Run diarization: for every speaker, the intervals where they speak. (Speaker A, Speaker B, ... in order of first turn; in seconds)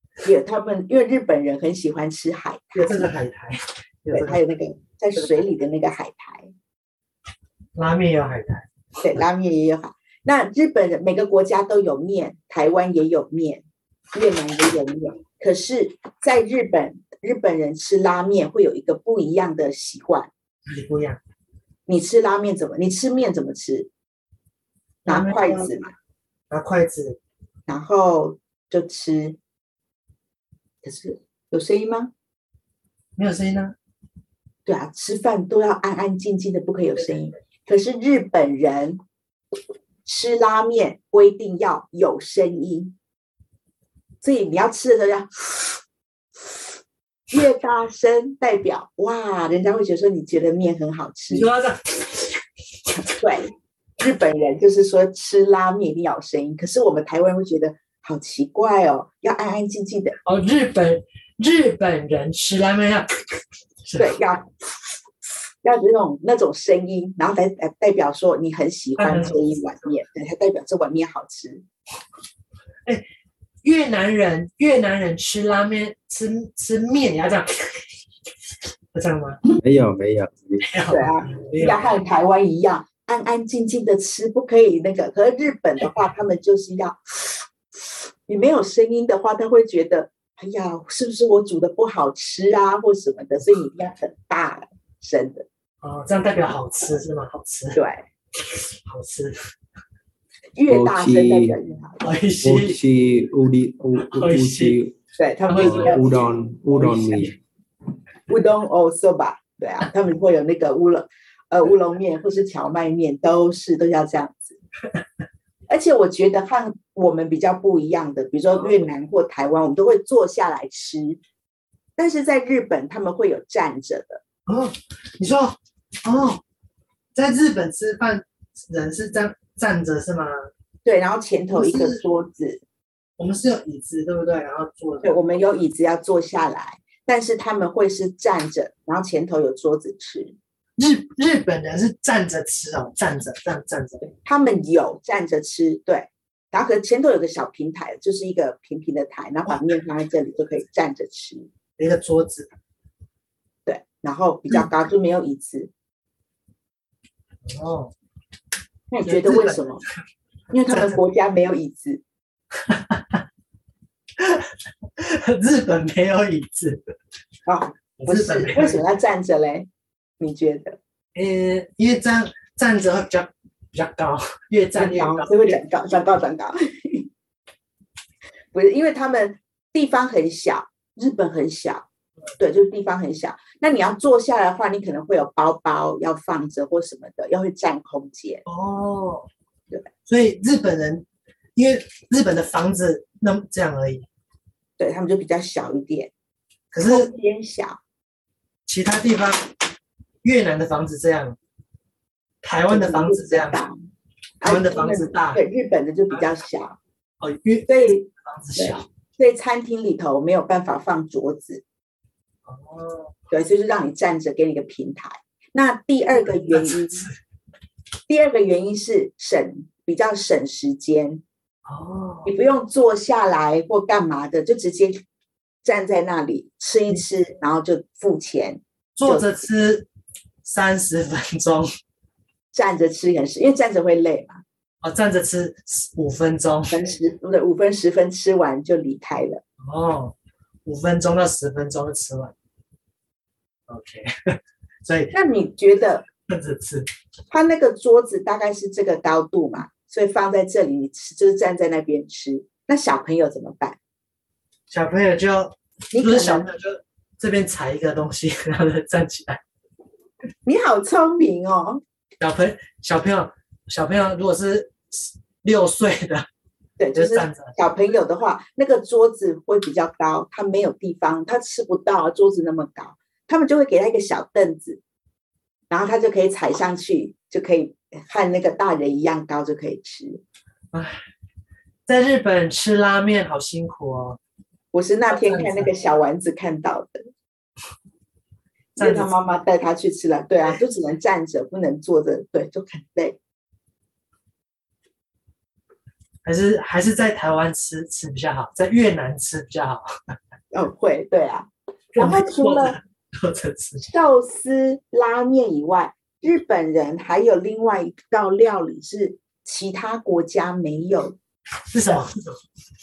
Speaker A: 0.2-3.1, 4.1-6.5, 9.0-20.3, 21.9-23.9, 25.1-25.9, 27.7-29.4, 30.8-32.1, 34.7-39.0, 40.1-42.9, 44.2-45.7, 47.3-51.5, 53.0-60.2, 64.0-64.5, 65.6-71.6, 80.9-87.0, 88.3-95.5, 97.8-98.0, 100.6-102.1, 105.2-106.3, 108.3-114.6, 115.7-121.2, 122.0-124.2, 130.8-132.6, 135.0-140.3, 144.2-151.5, 153.7-155.7, 158.9-159.8, 160.5-162.0, 167.5-169.7, 170.2-170.8, 174.8-177.1, 178.5-181.9, 182.4-188.4, 194.8-196.1, 196.8-197.8, 202.7-203.8, 204.4-206.8, 207.7-211.6, 213.3-217.1, 218.1-221.2, 222.2-225.0, 225.6-229.3, 232.5-234.4, 236.7-239.4, 245.1-246.1, 247.3-253.8, 255.9-256.5, 260.5-261.8, 266.8-274.8, 275.7-280.2, 284.7-287.1, 288.8-293.2, 300.5-302.8, 303.8-311.2
Speaker B: 2.8-4.4, 7.8-8.7, 20.7-21.2, 25.1-25.7, 26.5-27.2, 33.2-33.7, 51.3-52.4, 60.2-64.2, 69.0-69.5, 73.6-78.0, 78.9-79.4, 80.6-82.0, 95.8-97.8, 98.4-99.4, 102.0-102.8, 104.0-104.8, 105.5-107.3, 118.6-118.8, 124.5-126.4, 127.2-130.5, 131.5-132.0, 133.2-135.2, 140.8-144.0, 151.8-152.5, 157.4-157.9, 159.1-159.9, 160.7-161.0, 162.6-163.2, 164.2-166.8, 168.0-168.8, 171.2-175.6, 188.5-189.3, 190.1-191.1, 191.6-194.1, 196.7-197.1, 198.7-199.5, 200.2-201.4, 202.4-203.6, 204.4-205.4, 207.2-208.9, 212.5-213.2, 216.1-217.2, 221.7-222.3, 229.0-229.9, 230.4-231.7, 234.8-236.9, 239.6-242.3, 243.7-245.1, 246.2-246.9, 254.7-259.4, 262.2-266.3, 266.9-267.6, 280.7-281.0, 281.9-284.2, 285.1-285.7, 288.8-289.1, 296.2-300.1, 301.9-303.9, 311.7-312.4
Speaker C: 79.6-80.7, 100.7-101.6, 102.4-104.9, 105.5-107.4